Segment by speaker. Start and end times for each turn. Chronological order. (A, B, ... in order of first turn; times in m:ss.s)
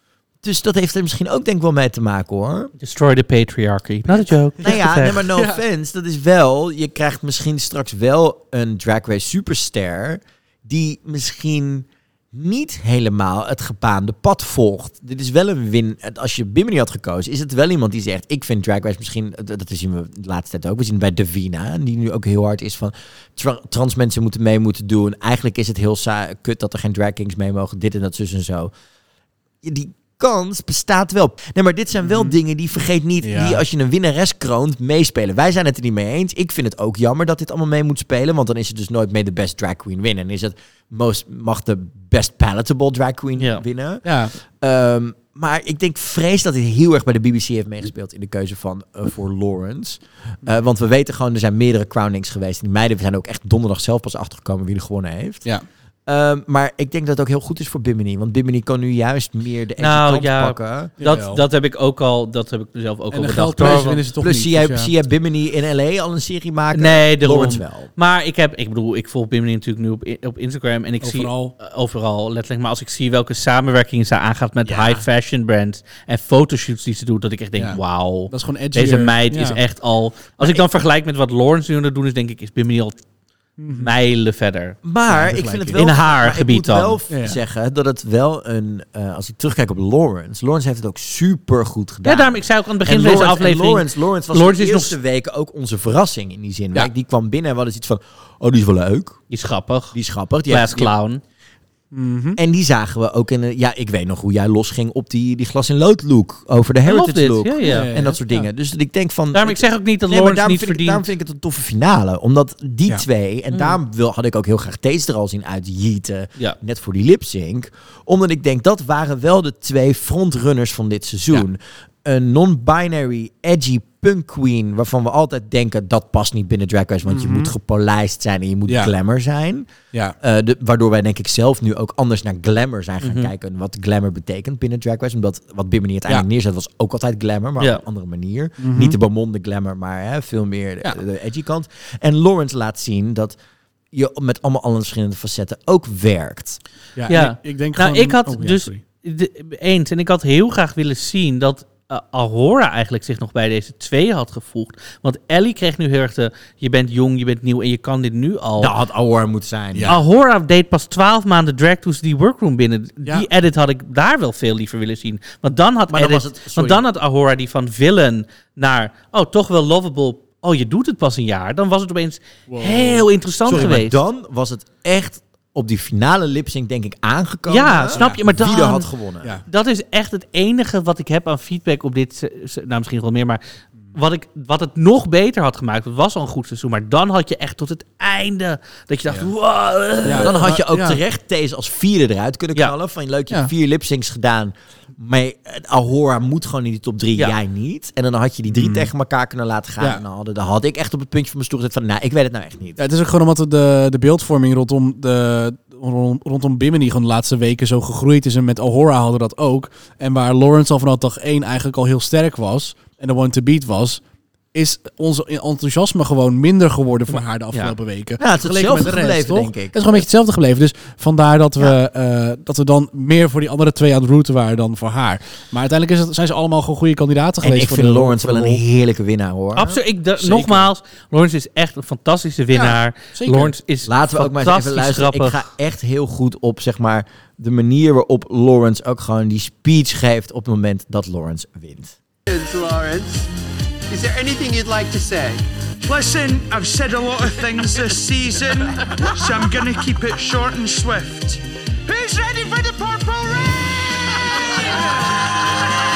0:00.4-0:02.7 A
0:02.8-0:05.3 B
0:04.6-0:05.6 C
0:04.6-0:28.7 A
0:29.6-0:55.5 A
0:32.0-0:32.3 C
0:33.2-0:33.6 C
0:43.4-0:43.6 B
0:44.0-0:44.3 C
0:56.1-1:00.9 A
0:59.8-1:04.0 B
1:01.0-1:01.4 C
1:03.1-1:04.9 C
1:03.6-1:07.9 A
1:06.7-1:23.0 B
1:11.0-1:11.5 C
1:14.6-1:15.0 C
1:17.6-1:19.6 C
1:23.6-1:23.9 C
1:23.7-1:24.8 B
1:24.8-1:39.2 A
1:25.1-1:25.9 C
1:25.8-1:27.0 B
1:27.1-1:27.4 C
1:32.0-1:35.0 B
1:39.3-1:40.0 B
1:39.9-1:40.9 A
1:40.5-1:41.2 B
1:41.9-1:42.4 C
1:42.4-2:09.7 A
1:46.8-1:47.9 B
1:47.6-1:48.5 C
1:49.3-1:51.1 B
1:53.5-1:53.8 B
2:07.0-2:07.5 C
2:10.2-2:23.4 A
2:13.0-2:13.3 B
2:18.6-2:19.0 C
2:23.9-2:26.6 A
2:27.0-2:28.8 C
2:27.1-2:38.8 B
2:38.6-2:40.0 A
2:39.9-2:54.0 B
2:45.9-2:46.8 A
2:52.5-2:53.8 C
2:53.5-2:59.4 A
2:57.5-2:58.9 B
2:57.9-2:58.3 C
2:59.5-3:03.4 B
3:04.0-3:10.3 B
3:10.0-3:11.0 C
3:10.1-3:22.8 A
3:18.5-3:18.9 C
3:22.8-3:34.0 C
3:34.5-3:48.6 C
3:38.2-3:40.0 A
3:47.4-3:50.7 A
3:49.6-3:55.4 B
3:52.5-3:53.6 C
3:53.8-4:02.0 A
4:02.3-4:03.3 D
4:03.9-4:05.4 D
4:05.8-4:13.9 E
4:14.5-4:15.0 E